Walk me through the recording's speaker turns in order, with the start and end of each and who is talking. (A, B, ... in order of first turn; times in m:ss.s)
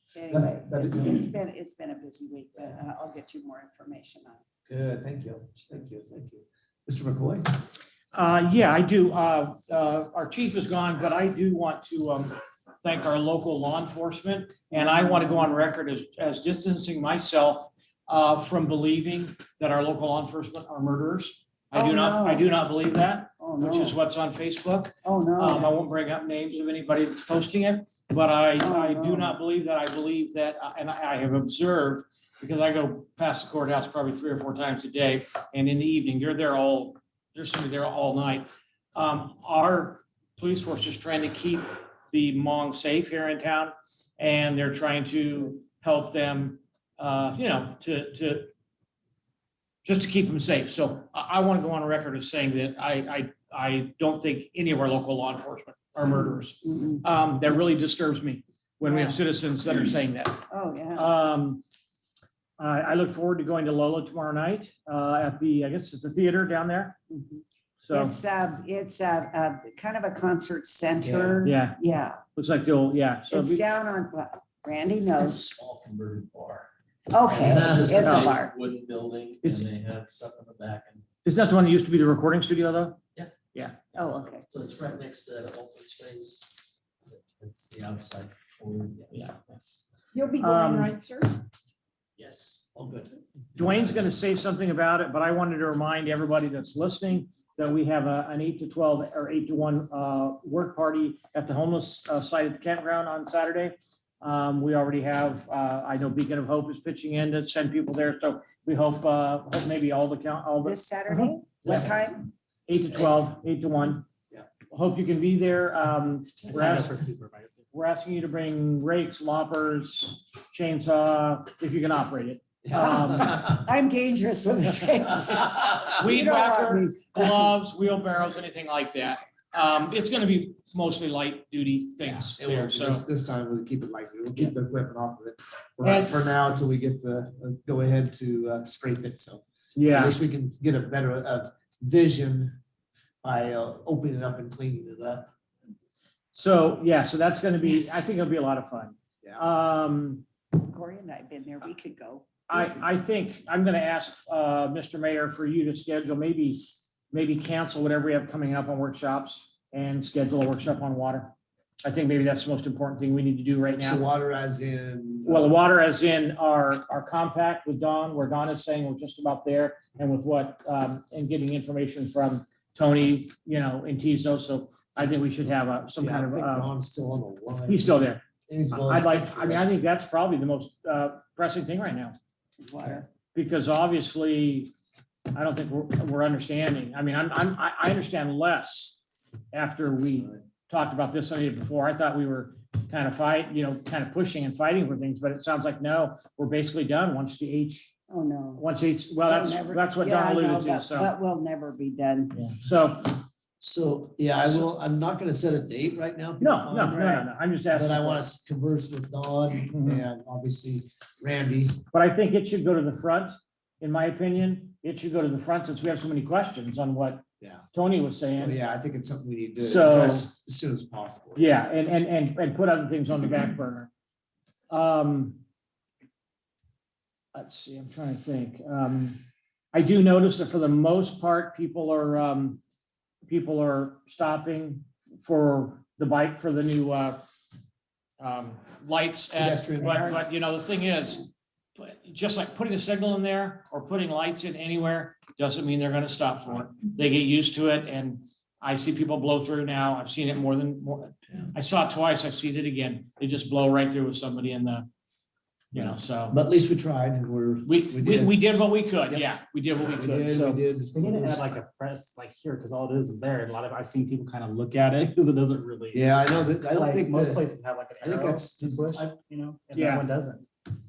0:00.1-0:04.4 A
0:00.3-0:01.3 B
0:04.7-0:07.5 B
0:08.1-0:48.5 C
0:14.7-0:15.7 A
0:21.7-0:22.5 A
0:23.4-0:24.0 A
0:25.0-0:25.7 A
0:28.6-0:29.4 A
0:49.8-1:01.6 C
0:56.6-0:57.0 A
0:58.9-0:59.2 A
1:00.5-1:01.1 A
1:02.6-1:07.0 C
1:07.1-1:12.2 A
1:07.8-1:08.2 C
1:11.0-1:11.4 B
1:11.4-1:11.8 C
1:12.4-1:13.6 C
1:13.3-1:15.4 A
1:15.2-1:21.1 D
1:17.1-1:18.5 A
1:17.4-1:18.0 B
1:18.0-1:18.3 C
1:21.2-1:23.0 C
1:23.9-1:29.4 D
1:24.0-1:24.4 A
1:29.1-1:29.4 C
1:30.1-1:31.4 A
1:30.4-1:30.9 C
1:32.2-1:32.6 D
1:32.8-1:33.8 B
1:33.6-1:51.9 C
1:50.6-1:52.3 A
1:52.7-1:54.1 C
1:54.7-1:56.9 C
1:56.5-1:57.6 E
1:57.7-2:03.3 C
2:02.6-2:03.6 B
2:02.7-2:07.4 A
2:06.0-2:13.0 C
2:12.0-2:22.6 B
2:15.8-2:16.2 C
2:19.8-2:20.2 C
2:23.2-2:25.3 B
2:26.3-2:30.2 C
2:30.6-2:32.7 A
2:32.5-2:44.1 C
2:43.7-2:45.6 B
2:45.3-2:56.7 C
2:56.0-2:59.7 B
2:57.7-2:58.2 C
2:58.8-3:02.2 C
3:02.6-3:03.1 A
3:03.3-3:04.7 C
3:05.3-3:09.0 C
3:09.5-3:17.9 C
3:18.1-3:18.6 A
3:18.6-3:21.1 C
3:19.2-3:22.4 A
3:22.3-3:23.2 C
3:23.6-3:31.8 B
3:26.4-3:28.3 C
3:29.7-3:30.0 C
3:31.9-3:38.6 C
3:38.4-3:41.5 B
3:39.6-3:40.3 C
3:41.4-3:43.9 C
3:44.7-3:45.4 C
3:47.3-3:49.2 C
3:49.7-3:52.6 C
3:53.3-3:57.2 C
3:58.2-4:14.9 C
3:59.4-4:00.3 B
4:15.7-4:16.4 C
4:15.7-4:18.4 B
4:17.7-4:20.6 C
4:19.8-4:21.6 B
4:20.9-4:30.4 E
4:25.9-4:27.4 B
4:28.0-4:29.1 B
4:29.7-4:30.1 C